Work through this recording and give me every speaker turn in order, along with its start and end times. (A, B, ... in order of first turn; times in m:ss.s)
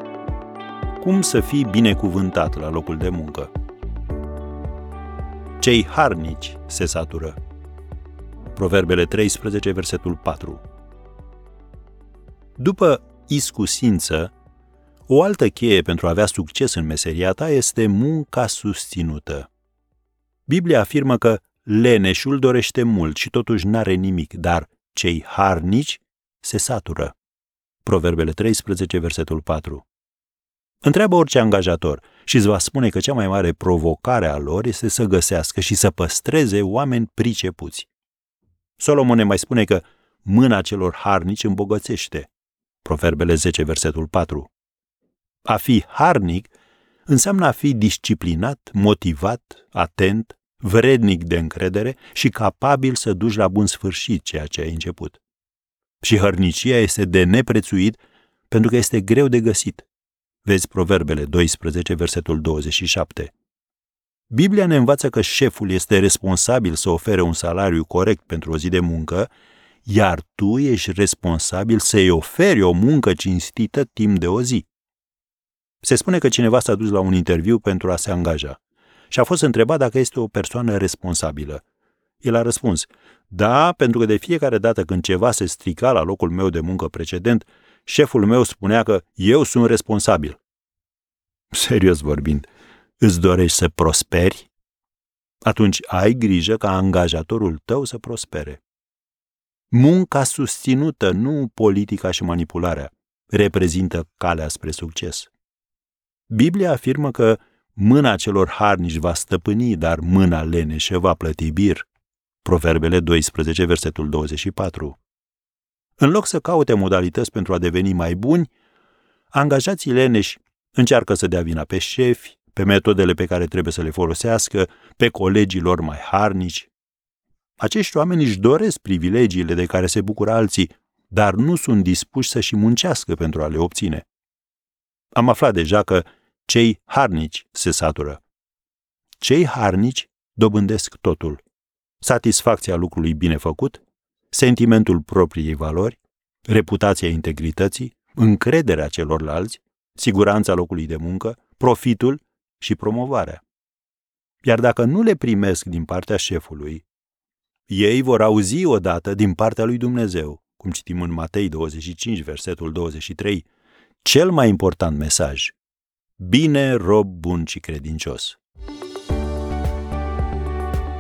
0:01.0-0:03.5 A
0:05.6-0:07.4 A
0:08.6-0:10.6 A
0:12.6-0:14.3 A
0:15.1-0:19.5 A
0:20.5-0:27.2 A
0:27.8-0:29.9 A
0:30.8-0:37.9 A
0:38.8-0:42.3 A
0:42.8-0:44.5 A
0:45.4-0:46.5 A
0:47.1-0:55.2 A
0:56.0-0:58.0 A
0:58.5-0:59.9 A
1:00.4-1:03.3 A
1:04.3-1:09.3 A
1:09.8-1:14.7 A
1:15.8-1:18.6 A
1:19.1-1:21.6 A
1:22.2-1:30.4 A
1:31.5-1:32.5 A
1:33.0-1:34.5 A
1:35.4-1:38.6 A
1:39.7-1:45.3 A
1:46.3-1:51.9 A
1:52.4-1:55.0 A
1:56.0-1:58.5 A
1:59.3-2:06.7 A
2:07.6-2:14.1 A
2:15.2-2:18.2 A
2:19.2-2:21.4 A
2:22.0-2:33.4 A
2:34.4-2:36.8 A
2:37.7-2:43.5 A
2:44.0-2:45.6 A
2:46.2-2:48.4 A